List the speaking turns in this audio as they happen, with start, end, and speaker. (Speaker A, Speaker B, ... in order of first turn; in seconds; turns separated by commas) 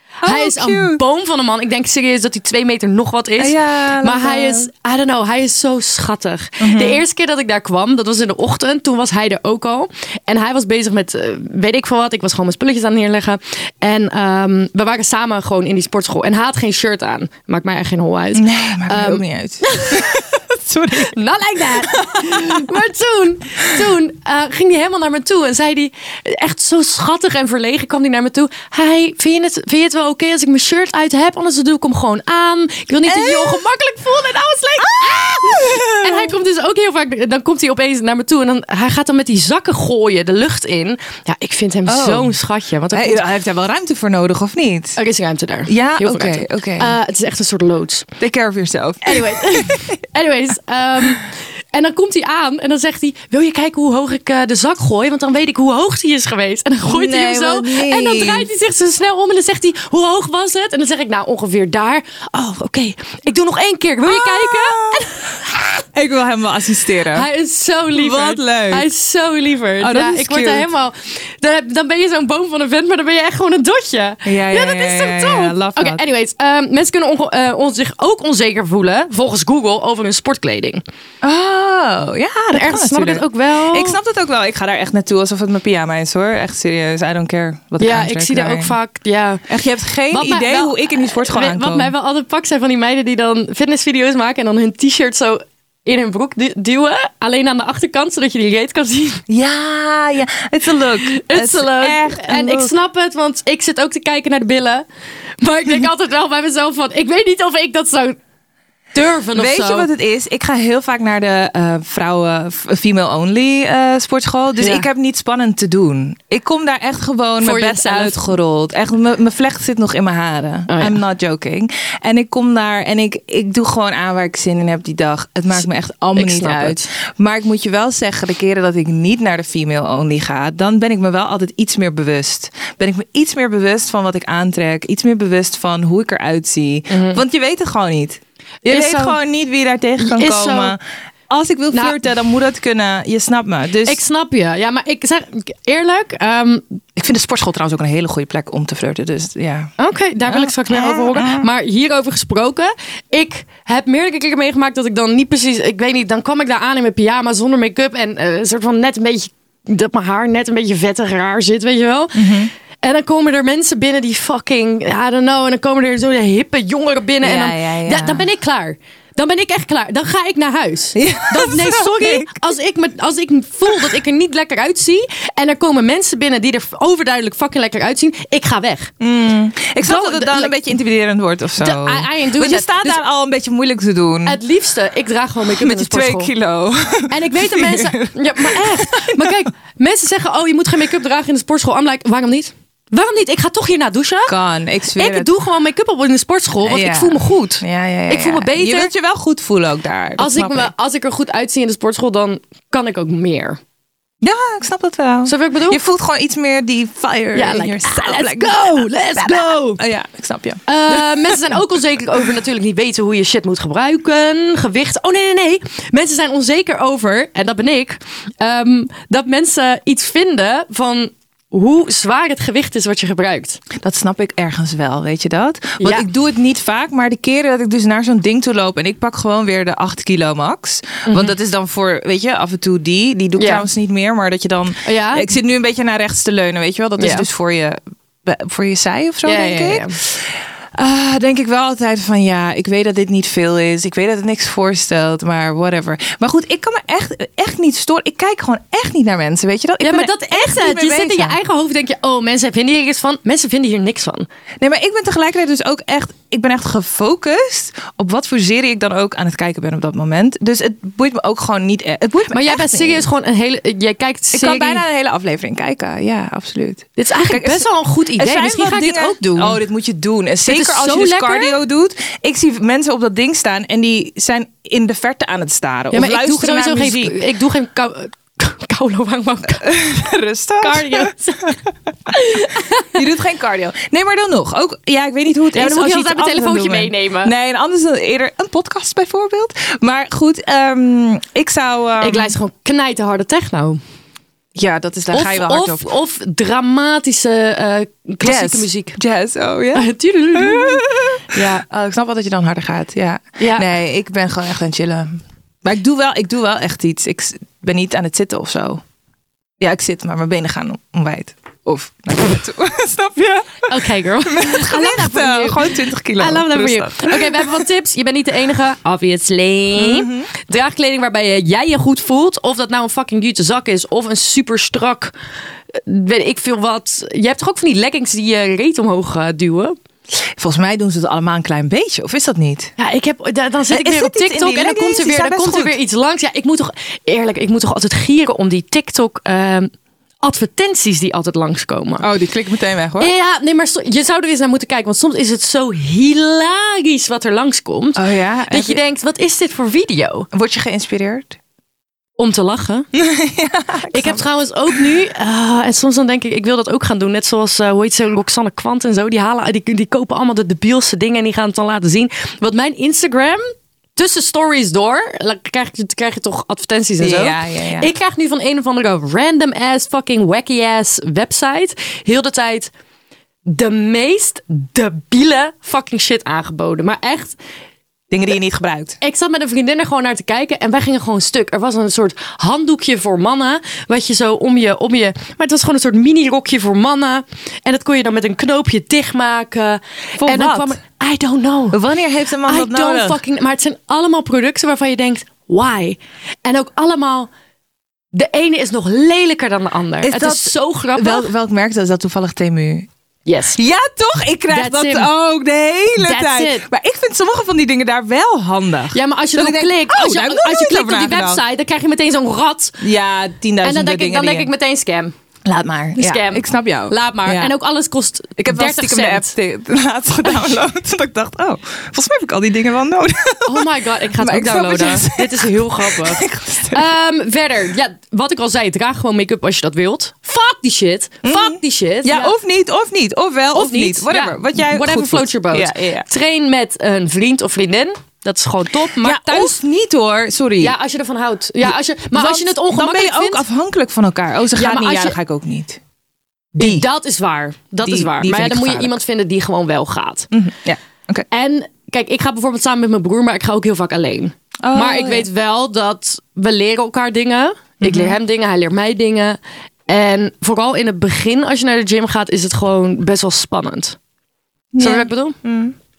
Speaker A: 0.2-1.0, Speaker B: 0.2-20.3, Speaker A: 3.4-4.7, Speaker A: 6.6-7.0, Speaker A: 18.3-21.1, Speaker B: 20.9-43.2, Speaker A: 21.7-22.8, Speaker A: 33.0-33.6, Speaker A: 34.8-36.3, Speaker A: 41.9-42.4, Speaker A: 42.9-45.0, Speaker B: 45.0-48.1, Speaker A: 45.7-46.9, Speaker A: 48.2-50.0, Speaker B: 49.0-65.8, Speaker A: 56.9-58.5, Speaker A: 64.0-65.2, Speaker A: 65.9-67.3, Speaker B: 67.1-80.8, Speaker A: 67.9-68.8, Speaker A: 69.8-70.7, Speaker A: 74.2-76.0, Speaker A: 81.2-88.7, Speaker B: 82.5-84.0, Speaker B: 87.8-89.4, Speaker A: 89.5-91.9, Speaker B: 90.1-99.2, Speaker A: 99.3-102.7, Speaker B: 101.0-104.8, Speaker B: 105.4-108.2, Speaker B: 108.9-109.9, Speaker A: 109.3-140.8, Speaker B: 114.6-114.9, Speaker B: 117.4-118.2, Speaker B: 120.7-121.0, Speaker B: 126.2-126.8, Speaker B: 136.9-137.2, Speaker B: 138.7-139.2, Speaker B: 140.0-140.8, Speaker A: 141.3-144.0, Speaker B: 141.7-142.0, Speaker B: 143.8-146.6, Speaker A: 146.9-149.7, Speaker B: 149.8-178.9, Speaker A: 150.3-151.5, Speaker A: 162.1-162.5, Speaker A: 167.2-168.2, Speaker A: 170.9-172.4, Speaker A: 179.0-184.4, Speaker B: 179.8-180.5, Speaker B: 181.6-183.0, Speaker B: 184.2-186.3, Speaker A: 185.6-189.4, Speaker B: 187.1-194.3, Speaker A: 194.3-195.3, Speaker B: 194.9-198.9, Speaker A: 196.7-200.7, Speaker B: 200.2-203.6, Speaker A: 204.2-211.6, Speaker B: 205.2-205.8, Speaker B: 207.3-209.8, Speaker B: 210.7-223.6, Speaker A: 223.8-251.4, Speaker B: 225.8-226.1, Speaker B: 231.1-231.3, Speaker B: 233.4-233.6, Speaker B: 234.8-235.2, Speaker B: 237.0-237.2, Speaker B: 239.2-239.9, Speaker B: 249.8-254.3, Speaker A: 254.6-263.0, Speaker B: 262.3-264.8, Speaker A: 264.3-277.2, Speaker B: 267.0-269.6, Speaker B: 270.4-271.5, Speaker B: 275.9-279.7, Speaker A: 279.6-281.5, Speaker B: 280.6-281.6, Speaker B: 282.1-283.0, Speaker A: 282.9-292.3, Speaker B: 285.5-287.3, Speaker B: 292.0-293.8, Speaker A: 294.6-295.8, Speaker B: 295.1-298.9, Speaker A: 298.2-308.8, Speaker B: 299.7-301.2, Speaker B: 303.4-303.6, Speaker A: 309.6-317.6, Speaker B: 313.7-325.1, Speaker A: 319.7-320.3, Speaker B: 325.7-329.7, Speaker A: 330.4-332.7, Speaker B: 332.8-339.7, Speaker A: 333.7-335.8, Speaker B: 340.2-342.1, Speaker A: 342.0-343.1, Speaker B: 343.0-348.0, Speaker A: 347.9-348.8, Speaker B: 348.5-350.3, Speaker A: 350.3-351.4, Speaker B: 352.2-352.9, Speaker A: 352.9-354.8, Speaker B: 353.9-372.7, Speaker A: 367.0-367.9, Speaker B: 373.4-377.4, Speaker A: 378.1-379.0, Speaker B: 379.0-391.8, Speaker A: 390.2-390.8, Speaker A: 391.7-393.2, Speaker B: 392.4-397.3, Speaker B: 398.1-401.3, Speaker A: 400.0-402.9, Speaker B: 403.2-403.6, Speaker A: 403.6-411.4, Speaker B: 404.5-405.1, Speaker B: 406.0-406.6, Speaker B: 408.9-412.8, Speaker A: 412.8-414.5, Speaker B: 413.6-415.1, Speaker A: 415.4-417.5, Speaker B: 415.9-419.3, Speaker A: 418.4-426.9, Speaker B: 423.4-432.3, Speaker A: 431.2-436.1, Speaker B: 433.5-439.6, Speaker A: 439.0-440.8, Speaker B: 440.6-443.4, Speaker A: 441.7-445.8, Speaker B: 444.5-445.2, Speaker A: 446.6-446.8, Speaker B: 446.6-450.3, Speaker A: 447.8-449.0, Speaker A: 450.3-451.3, Speaker B: 451.3-464.0, Speaker A: 454.6-455.3, Speaker A: 457.8-458.1, Speaker A: 464.7-465.7, Speaker B: 464.8-465.4